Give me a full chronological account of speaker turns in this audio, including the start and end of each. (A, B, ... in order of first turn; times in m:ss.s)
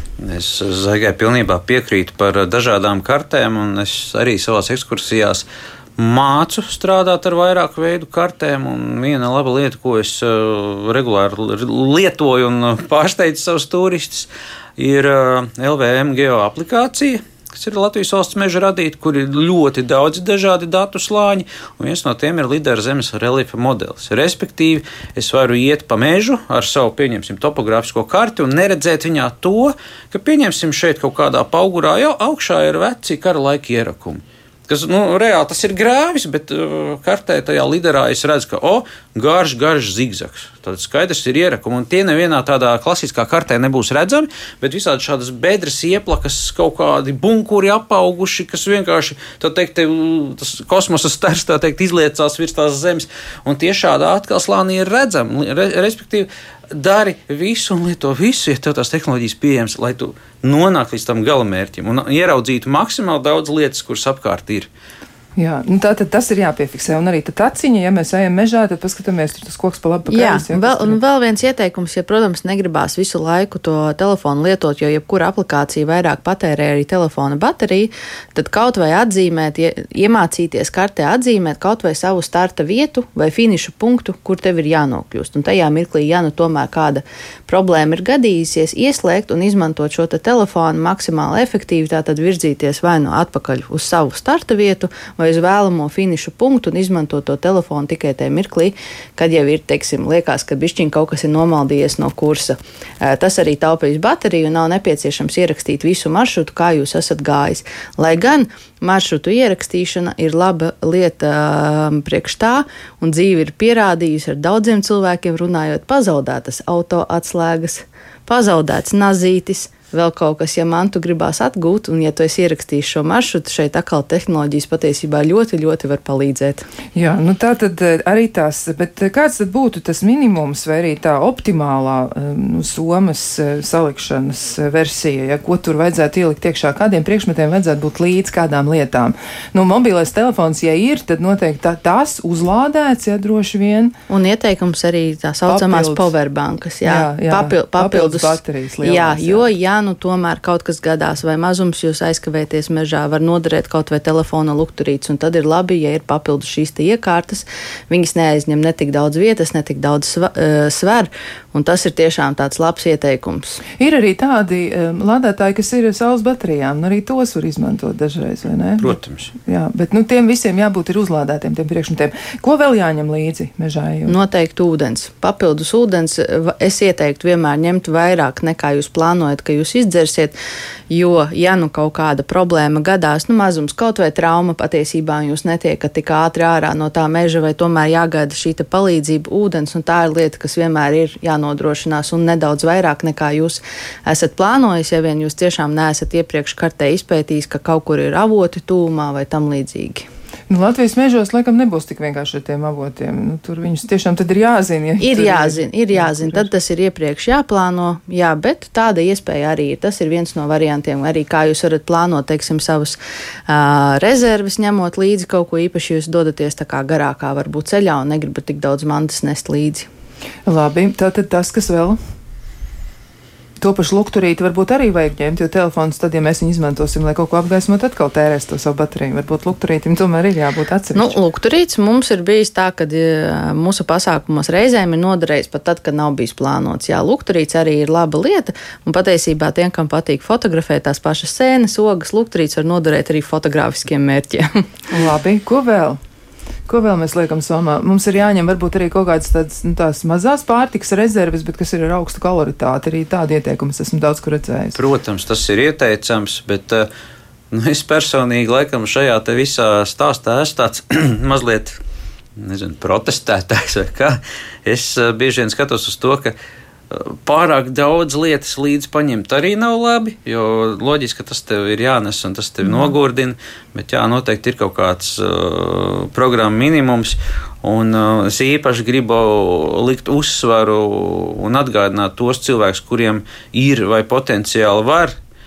0:00.2-0:05.4 A
0:06.0-1:04.7 A
1:05.4-1:11.0 B
1:10.1-2:06.7 C
2:06.9-2:23.9 B
2:24.1-2:43.6 C
2:25.5-2:26.1 B
2:26.8-2:29.5 B
2:43.7-2:54.1 B
2:48.8-2:49.3 A
2:54.0-3:00.3 C
3:00.9-3:20.1 C
3:20.5-3:26.5 B
3:25.0-3:39.9 C
3:40.4-3:42.0 B
3:43.6-3:51.2 B
3:50.9-4:04.7 C
4:04.9-4:06.0 B
4:06.7-4:14.8 B
4:14.7-4:16.9 A
4:17.5-4:21.8 A
4:22.4-4:26.4 A
4:26.9-4:45.2 A